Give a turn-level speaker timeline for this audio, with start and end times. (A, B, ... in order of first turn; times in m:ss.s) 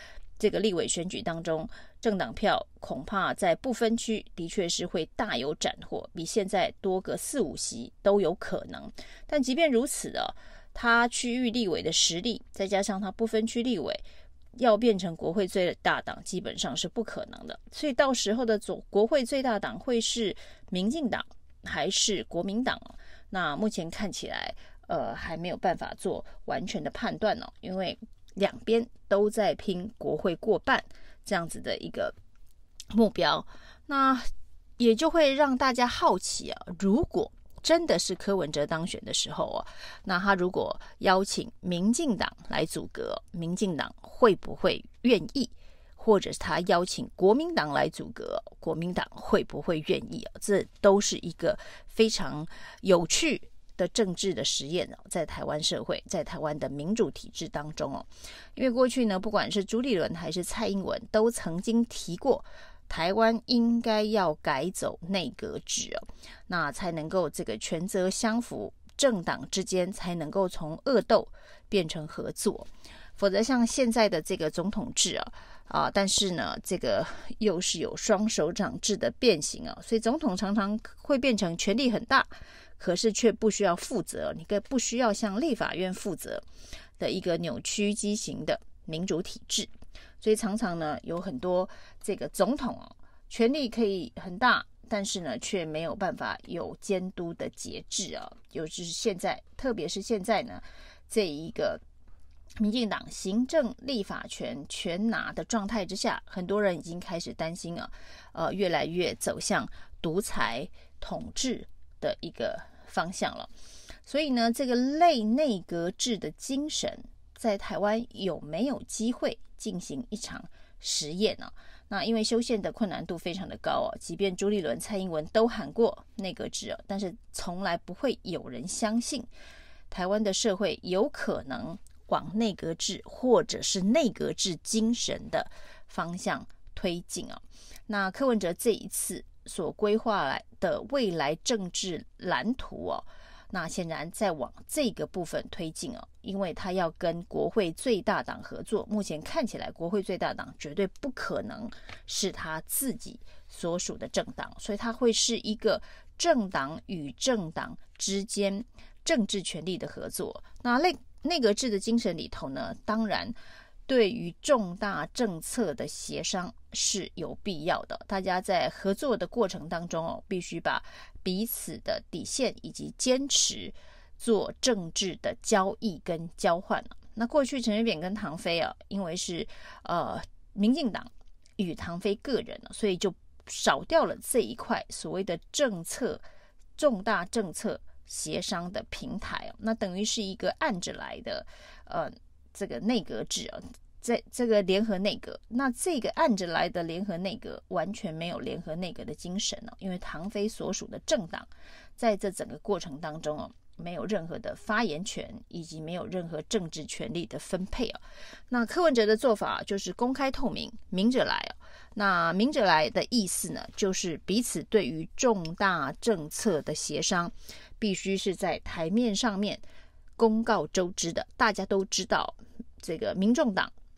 0:00.4-0:14.0 A
0:14.6-0:32.1 A
0:32.9-1:26.4 A
1:27.0-1:29.7 A
1:30.2-1:41.8 A
1:42.6-1:53.5 A
1:54.1-2:09.3 A
2:09.9-2:43.4 A
2:43.9-3:06.2 A
3:06.8-3:39.6 A
3:40.2-3:43.7 A